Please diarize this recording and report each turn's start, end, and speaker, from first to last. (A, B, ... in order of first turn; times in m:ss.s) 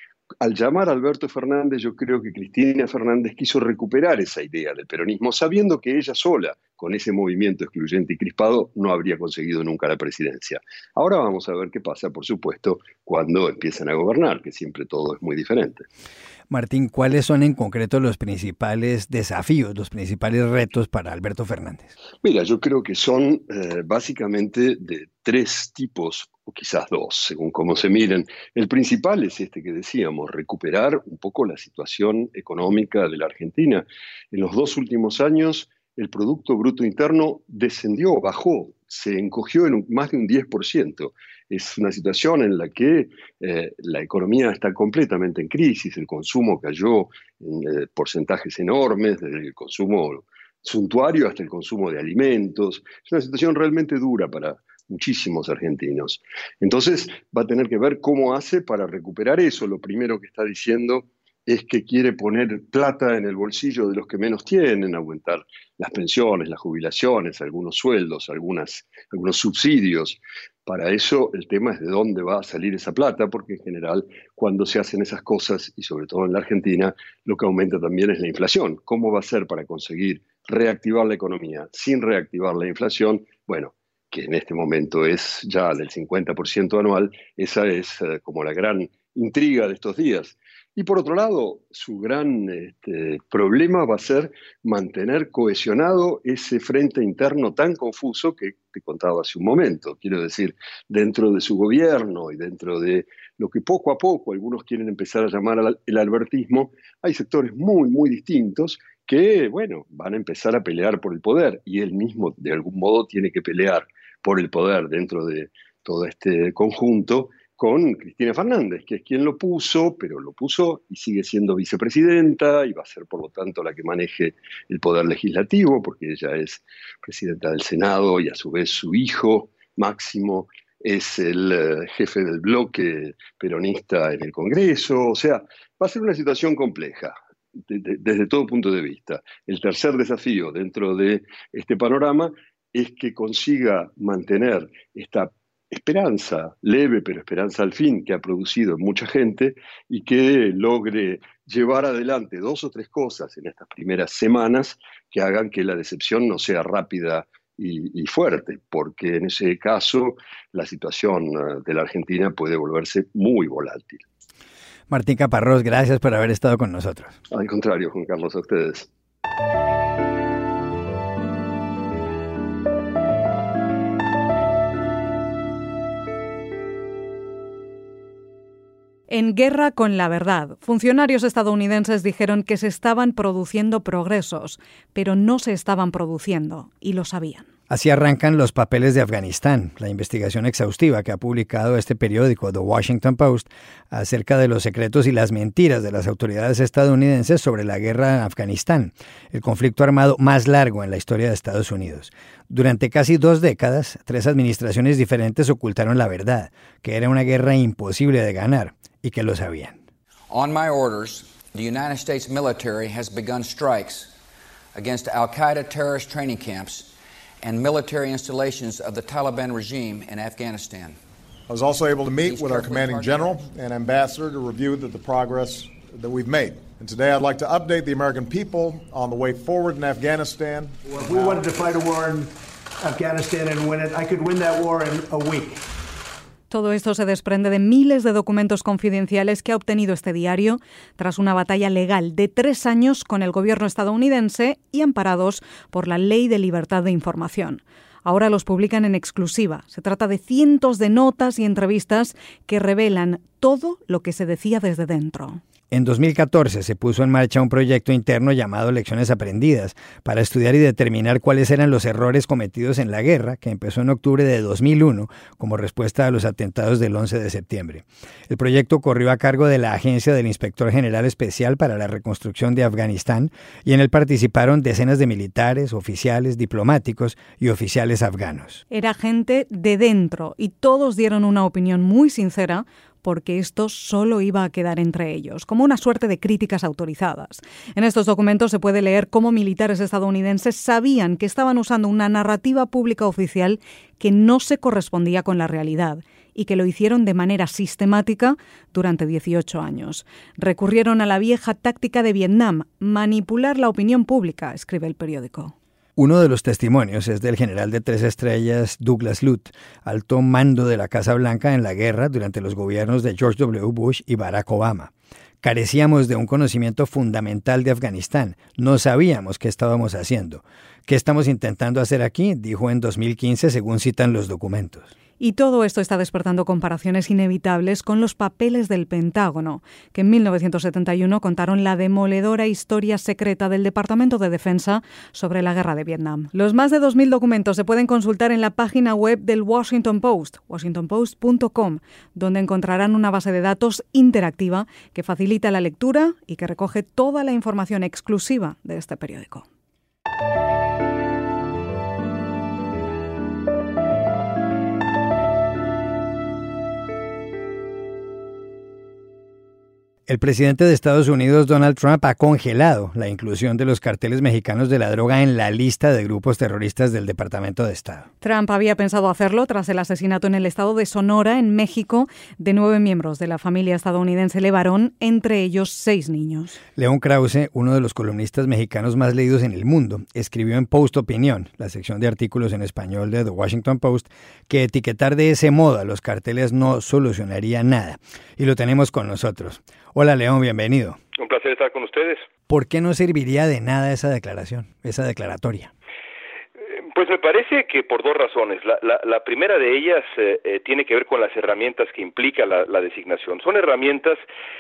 0:00.4-0:15.9 A
0:16.5-0:21.9 B
0:22.2-2:17.1 A
2:17.7-2:44.0 A
2:44.9-2:47.2 B
2:47.3-2:48.9 A
2:59.1-3:07.5 C
3:07.7-3:29.8 B
3:30.3-3:34.1 D
3:34.8-3:41.0 D
3:41.5-3:51.5 E
3:42.2-3:43.5 D
3:50.9-3:55.6 F
3:56.5-4:15.4 C
4:15.7-4:38.6 B
4:38.7-5:05.5 C
5:06.0-5:24.9 B
5:25.2-5:49.4 C
6:00.1-6:08.1 B
6:08.2-6:16.6 C
6:16.8-6:31.0 B
6:31.2-6:32.3 G
6:32.5-6:35.7 B
6:36.9-6:44.2 G